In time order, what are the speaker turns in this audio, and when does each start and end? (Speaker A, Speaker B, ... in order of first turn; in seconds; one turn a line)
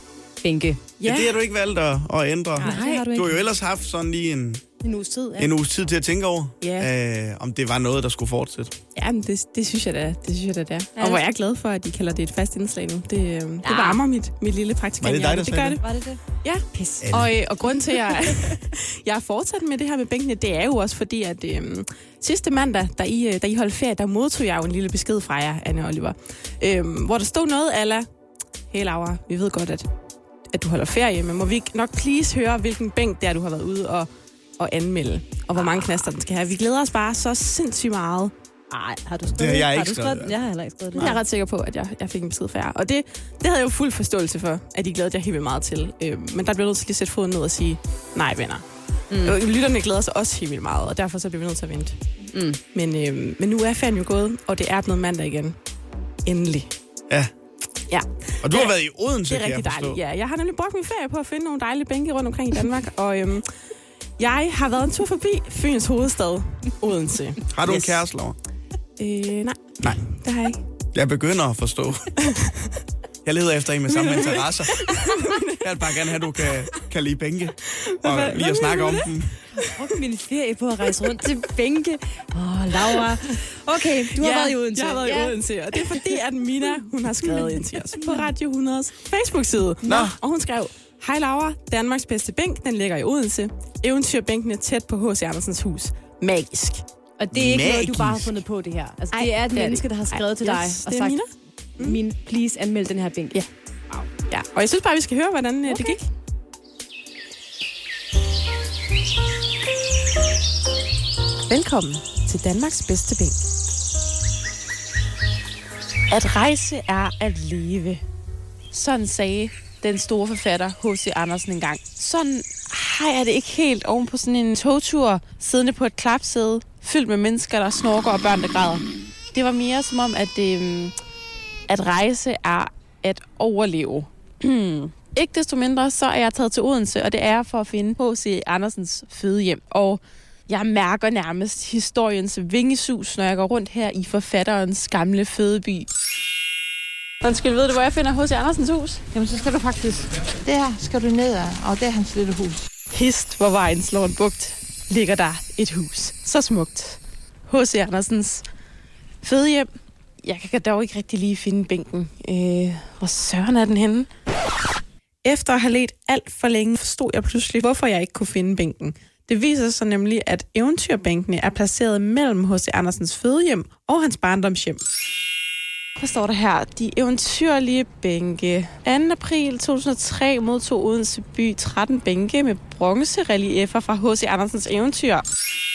Speaker A: 0.4-0.8
Speaker B: 1.0-1.4
Speaker C: 1.0-4.7
Speaker A: 2.6-3.4
Speaker B: 2.6-3.1
Speaker A: 4.8-5.5
Speaker C: 5.4-8.8
Speaker B: 6.6-6.9
Speaker B: 9.0-15.8
Speaker A: 11.0-11.2
Speaker A: 13.6-14.0
Speaker C: 15.0-15.8
Speaker A: 15.8-16.2
Speaker B: 16.4-28.1
Speaker A: 16.7-17.1
Speaker A: 17.7-18.6
Speaker B: 28.7-29.9
Speaker B: 30.5-38.3
Speaker A: 35.5-35.9
Speaker A: 38.7-41.1
Speaker C: 39.3-40.4
Speaker B: 41.0-48.7
Speaker A: 49.1-49.4
Speaker B: 49.2-52.0
Speaker A: 52.3-52.6
Speaker B: 52.7-55.6
Speaker B: 56.2-56.7
Speaker B: 57.9-68.0
Speaker C: 58.4-60.0
Speaker C: 67.5-68.4
Speaker B: 69.0-70.6
Speaker C: 69.8-70.2
Speaker C: 70.9-72.1
Speaker C: 73.2-79.4
Speaker B: 73.9-76.2
Speaker B: 77.8-79.1
Speaker A: 79.5-85.8
Speaker B: 84.2-96.8
Speaker A: 87.1-88.2
Speaker A: 89.8-90.2
Speaker C: 89.9-90.2
Speaker A: 97.2-101.2
Speaker C: 97.3-98.4
Speaker B: 99.1-102.0
Speaker A: 101.8-103.4
Speaker B: 104.2-106.1
Speaker A: 105.7-105.9
Speaker B: 111.5-113.4
Speaker B: 116.1-118.0
Speaker B: 118.7-131.0
Speaker B: 131.7-145.9
Speaker B: 147.2-149.0
Speaker D: 149.1-152.6
Speaker B: 152.9-158.4
Speaker B: 159.2-159.7
Speaker B: 160.2-164.1
Speaker B: 165.2-174.8
Speaker B: 176.0-185.2